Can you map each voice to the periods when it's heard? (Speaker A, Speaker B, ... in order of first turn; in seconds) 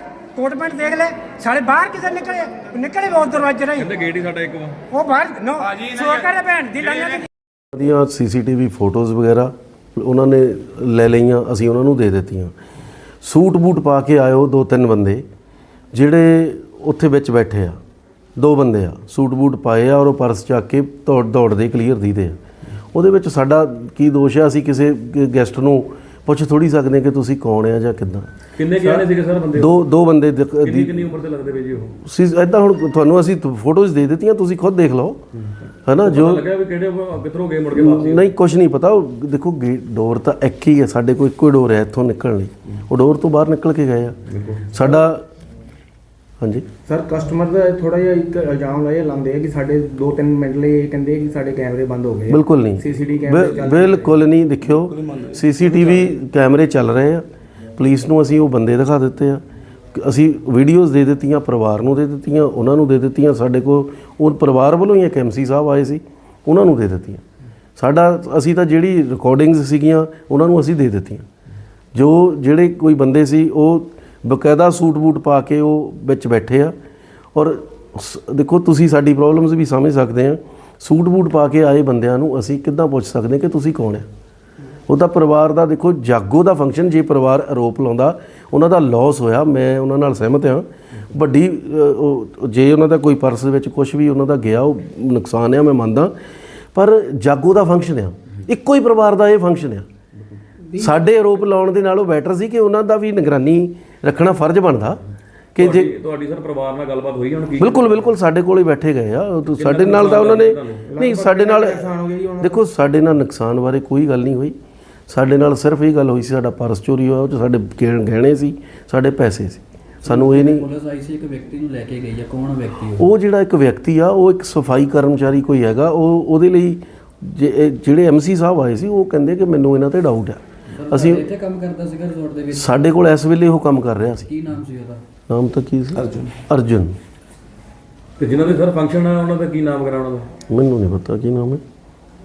Speaker A: 0.4-3.9, 4.9-7.3
Speaker B: 3.7-4.8, 28.6-29.8, 30.6-31.9, 36.0-38.3, 44.3-44.6, 105.6-108.1, 109.5-110.9, 138.2-140.3
Speaker C: 7.7-12.5, 13.2-15.2, 15.9-17.8, 18.4-22.4, 22.9-31.1, 32.0-35.2, 35.9-36.5, 37.7-44.2, 44.7-45.2, 46.4-46.7, 52.3-57.2, 57.8-59.4, 59.9-67.2, 67.8-71.3, 72.0-76.8, 77.3-84.1, 84.9-96.1, 96.8-99.9, 100.7-105.0, 105.5-105.9, 107.6-114.6, 115.1-120.7, 122.9-131.3, 132.5-134.4, 135.3-137.0, 140.5-141.6
Speaker D: 46.9-54.1, 110.9-112.6
Speaker E: 120.0-123.0, 130.8-132.8, 134.3-135.0